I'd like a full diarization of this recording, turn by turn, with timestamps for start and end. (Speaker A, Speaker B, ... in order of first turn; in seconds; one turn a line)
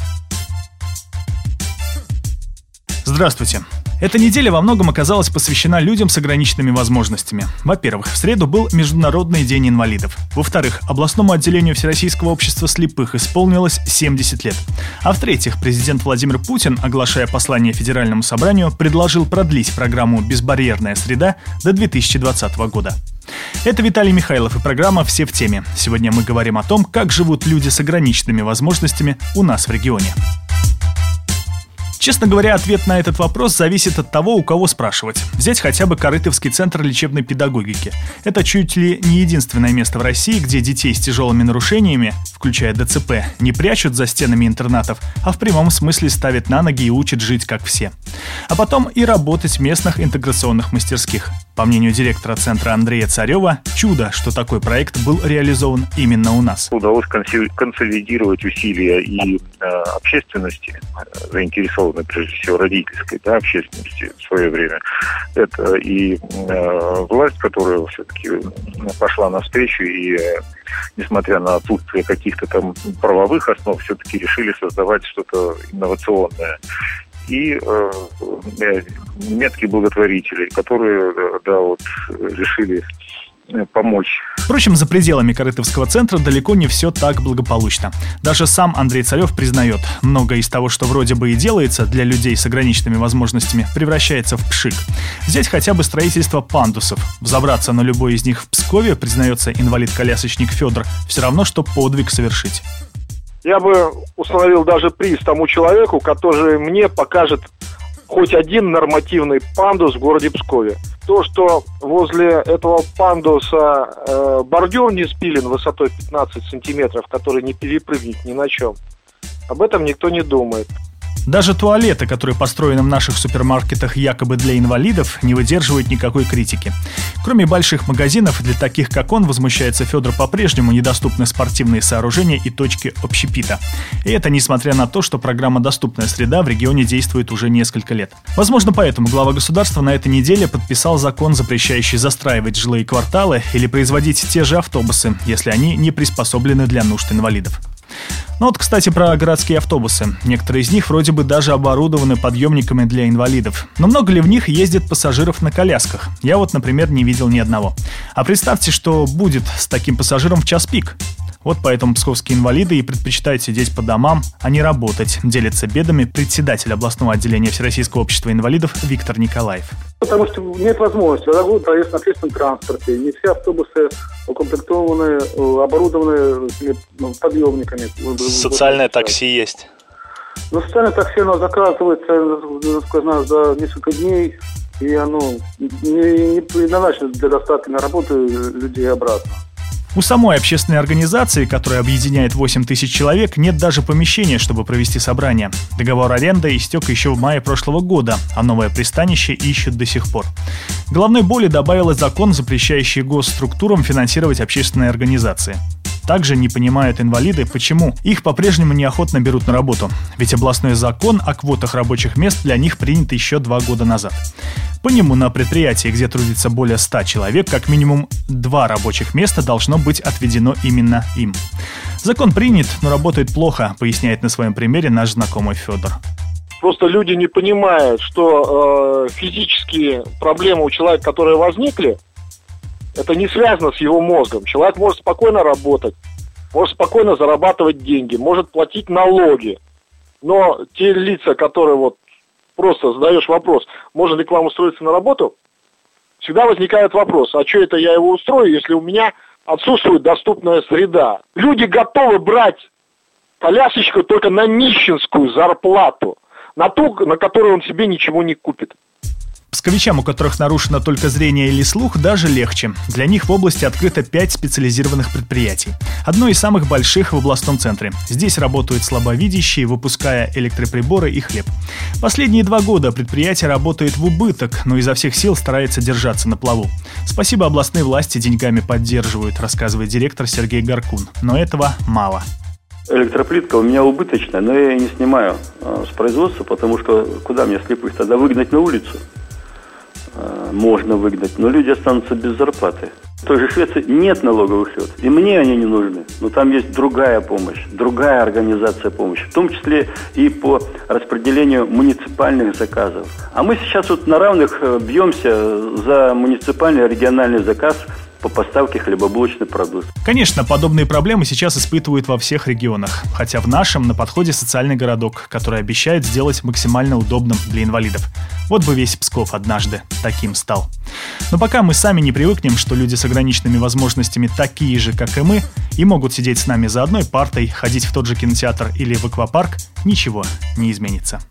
Speaker A: 3.0-23.0
Speaker A: 23.6-30.2
Speaker A: 32.0-47.9
Speaker A: 48.5-56.7
Speaker B: 56.7-64.8
Speaker B: 65.3-70.4
Speaker B: 71.0-76.5
Speaker B: 77.3-82.8
Speaker B: 83.5-84.2
Speaker A: 84.5-102.7
Speaker C: 103.4-107.5
Speaker C: 108.1-118.8
Speaker C: 119.5-120.7
Speaker A: 121.3-147.6
Speaker A: 148.4-169.8
Speaker D: 170.0-179.1
Speaker A: 178.2-179.7
Speaker D: 180.5-189.4
Speaker A: 189.9-200.3
Speaker A: 200.9-214.3
Speaker A: 214.8-221.4
Speaker A: 222.0-226.0
Speaker C: 226.6-232.0
Speaker C: 233.0-236.0
Speaker C: 236.5-239.6
Speaker C: 240.2-242.0
Speaker C: 242.6-245.3
Speaker C: 246.2-252.7
Speaker C: 253.4-258.8
Speaker A: 259.5-271.5
Speaker A: 272.0-282.2
Speaker E: 282.9-289.0
Speaker E: 290.1-309.9
Speaker A: 310.0-320.7
Speaker A: 321.3-331.2